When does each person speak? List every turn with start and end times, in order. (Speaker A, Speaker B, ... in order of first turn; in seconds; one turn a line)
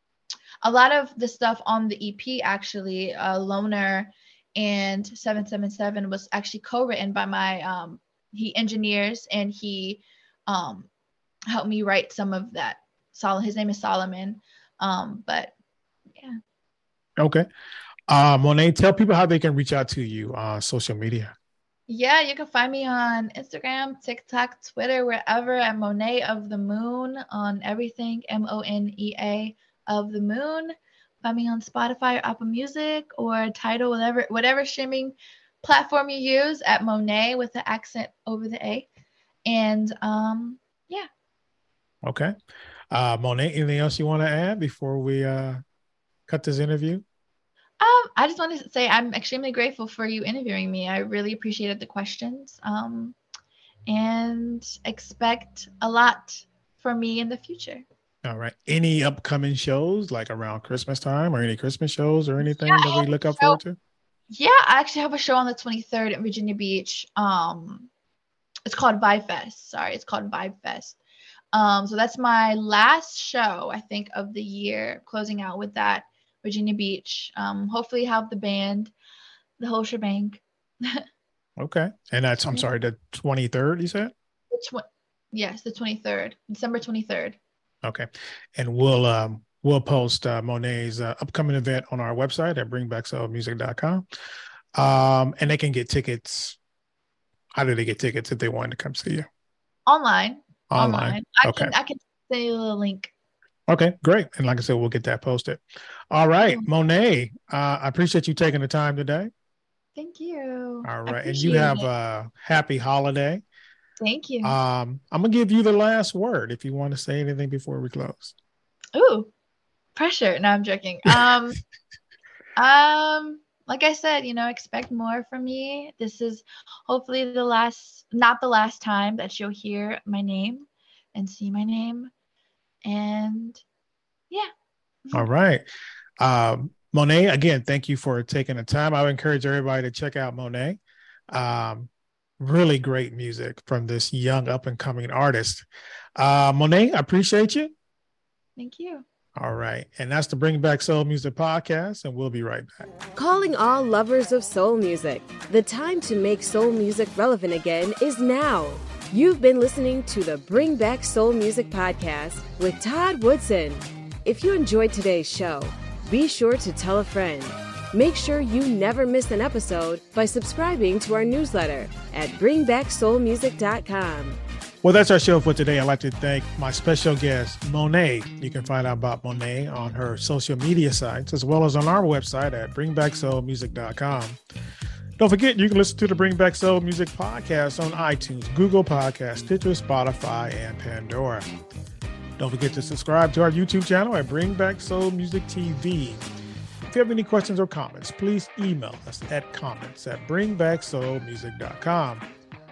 Speaker A: 0.6-10.9
Speaker A: 11.5-15.5
Speaker B: 17.2-17.5
Speaker B: 18.1-21.4
Speaker A: 21.9-38.9
Speaker A: 39.5-41.1
Speaker B: 42.0-42.3
Speaker B: 42.9-45.6
Speaker B: 46.3-47.0
Speaker A: 47.8-53.2
Speaker A: 53.9-57.8
Speaker B: 58.2-63.8
Speaker A: 62.4-63.6
Speaker A: 64.3-67.9
Speaker A: 68.7-71.0
Speaker A: 71.5-78.9
Speaker A: 79.6-81.0
Speaker B: 81.6-84.1
Speaker A: 84.5-87.4
Speaker B: 87.8-94.0
Speaker B: 94.8-96.6
Speaker B: 97.5-99.3
Speaker A: 99.9-103.1
Speaker B: 100.7-101.7
Speaker B: 103.7-109.3
Speaker A: 106.4-106.7
Speaker A: 110.0-111.9
Speaker B: 110.8-113.4
Speaker A: 114.0-114.6
Speaker B: 114.4-118.3
Speaker A: 119.0-119.3
Speaker A: 120.0-121.6
Speaker A: 122.6-132.1
Speaker A: 132.8-133.6
Speaker B: 135.1-135.7
Speaker B: 136.2-140.8
Speaker B: 141.3-147.7
Speaker A: 148.6-149.1
Speaker B: 149.4-152.9
Speaker C: 153.2-174.4
Speaker B: 174.8-184.4
Speaker B: 185.2-191.5
Speaker B: 192.4-196.2
Speaker B: 196.8-202.3